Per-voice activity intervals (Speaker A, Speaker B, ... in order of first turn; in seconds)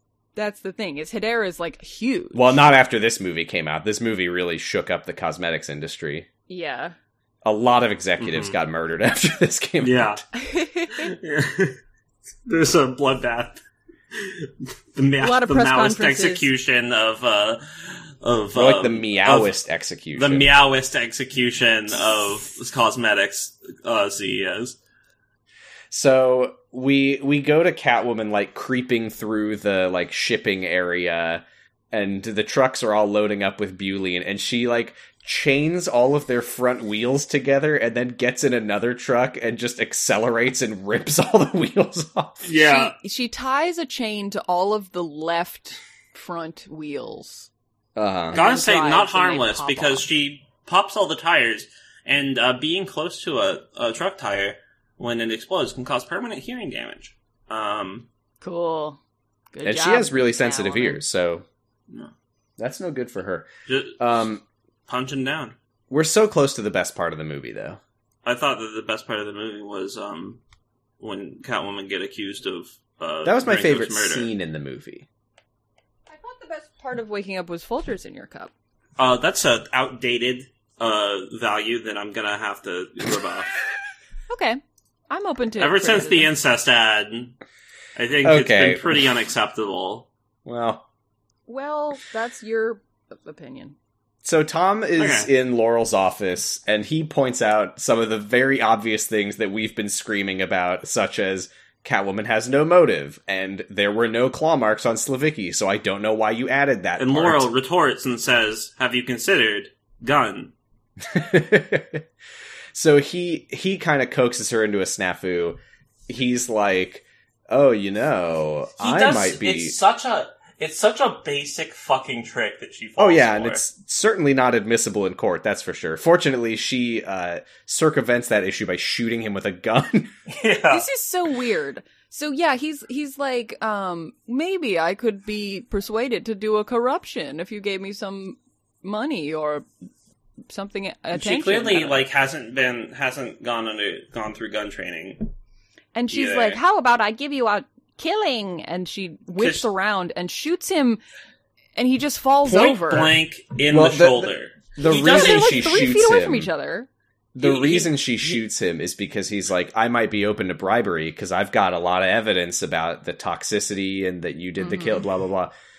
Speaker A: 0.3-2.6, 6.5-6.9, 10.3-11.1, 15.2-16.5, 42.6-47.5, 48.3-50.0, 58.4-59.0, 59.5-61.0, 76.1-78.5, 84.3-86.3, 91.5-93.8, 130.7-139.7, 140.5-142.0, 145.9-151.0, 151.8-153.1, 154.8-156.9, 164.6-165.1
Speaker B: 2.3-6.3, 7.4-10.2, 18.5-20.5, 25.9-42.5, 48.0-48.4, 59.6-61.5, 62.6-63.5, 64.0-64.4, 65.9-67.8, 73.2-75.1, 88.2-89.0, 90.4-90.8, 94.2-107.5, 111.0-112.0, 112.7-119.8, 123.0-130.1, 153.7-156.5, 157.3-165.5
Speaker C: 8.2-8.6, 9.8-10.2, 10.9-11.8, 12.4-13.6, 14.1-19.6, 20.1-24.8, 42.4-42.9, 48.3-58.1, 63.7-64.1, 64.9-65.5, 68.2-70.4, 71.0-74.3, 79.0-83.5, 85.6-87.3, 88.0-90.1, 95.0-95.3, 107.0-110.5, 118.8-123.6, 130.3-130.8, 141.1-145.3, 146.1-146.6, 149.4-149.7, 152.4-155.7, 157.4-158.1